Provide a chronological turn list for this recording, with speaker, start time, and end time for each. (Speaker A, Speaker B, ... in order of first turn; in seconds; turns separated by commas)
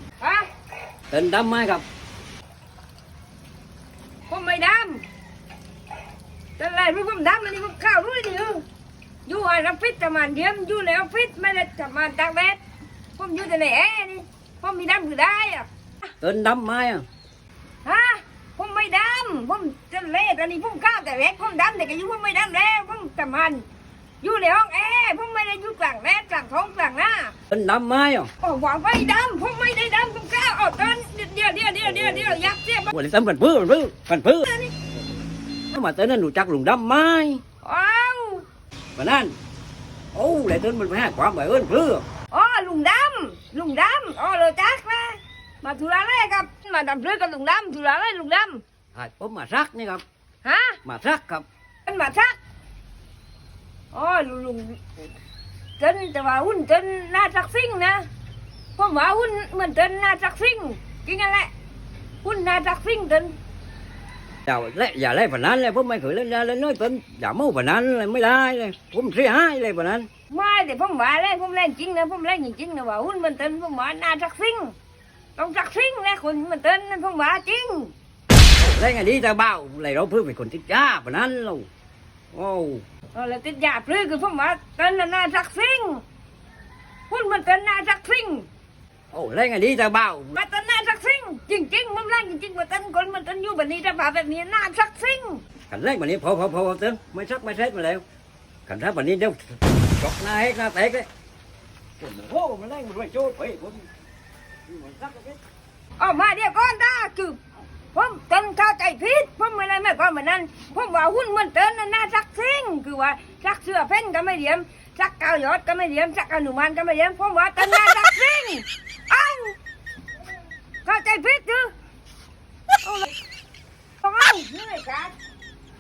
Speaker A: 0.2-0.5, Speaker B: 1.1-1.8, Speaker A: 4.3-5.0, Speaker A: 6.6-8.6, Speaker A: 9.2-12.6, Speaker A: 13.2-15.7, Speaker B: 16.2-17.0, Speaker A: 17.8-23.6, Speaker A: 24.2-27.3, Speaker B: 27.5-28.3, Speaker A: 28.4-32.9, Speaker B: 31.9-34.5, Speaker A: 34.5-34.7, Speaker B: 35.7-37.4, Speaker A: 37.6-38.4, Speaker B: 39.0-39.4, Speaker B: 40.1-42.0, Speaker A: 42.3-48.6, Speaker B: 48.9-50.0, Speaker A: 50.4-50.8, Speaker B: 50.8-51.4, Speaker A: 51.9-52.4, Speaker A: 53.9-55.1, Speaker A: 55.8-58.0, Speaker A: 58.8-61.5, Speaker A: 62.2-63.4, Speaker B: 64.5-70.1, Speaker A: 70.3-74.8, Speaker A: 75.3-77.9, Speaker B: 78.6-81.7, Speaker B: 82.3-82.8, Speaker A: 83.1-86.0, Speaker A: 87.1-88.5, Speaker B: 89.1-90.3, Speaker A: 90.3-95.4, Speaker B: 95.7-98.0, Speaker B: 98.7-101.1, Speaker B: 102.0-103.9, Speaker B: 104.7-105.4, Speaker A: 106.0-107.4, Speaker A: 107.9-119.6, Speaker A: 120.8-121.7, Speaker A: 122.8-123.1, Speaker A: 124.0-125.1